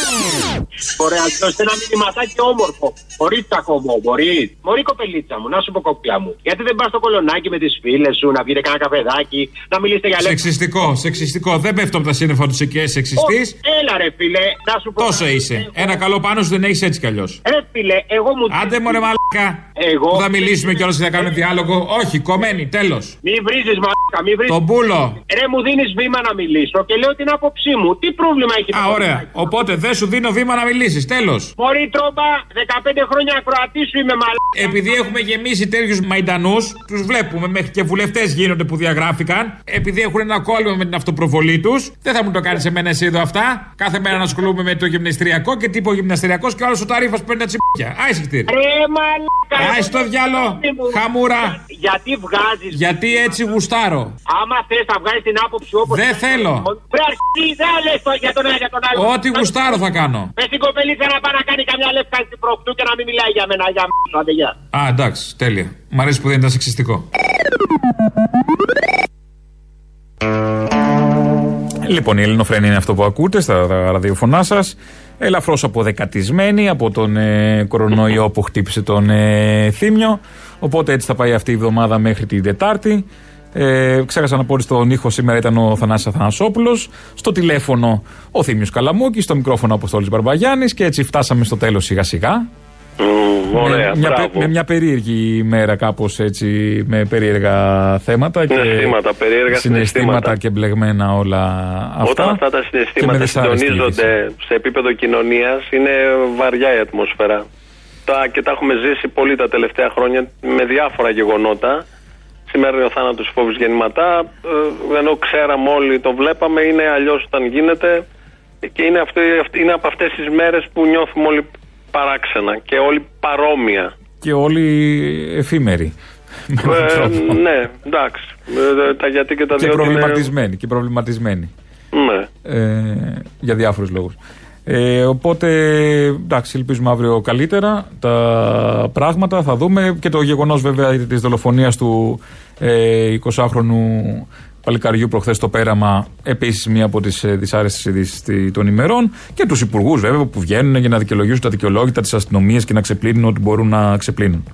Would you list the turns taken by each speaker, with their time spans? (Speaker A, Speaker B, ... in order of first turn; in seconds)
Speaker A: 1.0-10.4, 13.2-15.9, 17.4-19.0, 19.8-21.3, 23.2-24.6, 25.3-29.3, 31.6-34.8, 48.5-53.4, 54.3-59.7, 60.4-64.5
Speaker B: 10.2-13.6, 15.0-17.4, 18.5-23.1, 24.5-25.2, 28.7-31.5, 34.5-48.5, 49.5-51.6, 52.7-54.1, 55.9-56.7, 58.9-60.3, 64.7-67.0, 71.8-92.5, 93.5-99.0, 99.5-102.4, 103.0-104.1, 124.2-125.9, 126.5-127.4, 129.6-131.5, 132.4-154.4
Speaker C: 93.0-94.5, 98.5-100.3, 102.0-107.4, 108.1-111.8, 112.5-118.0, 118.6-123.9, 126.6-130.2, 131.9-132.3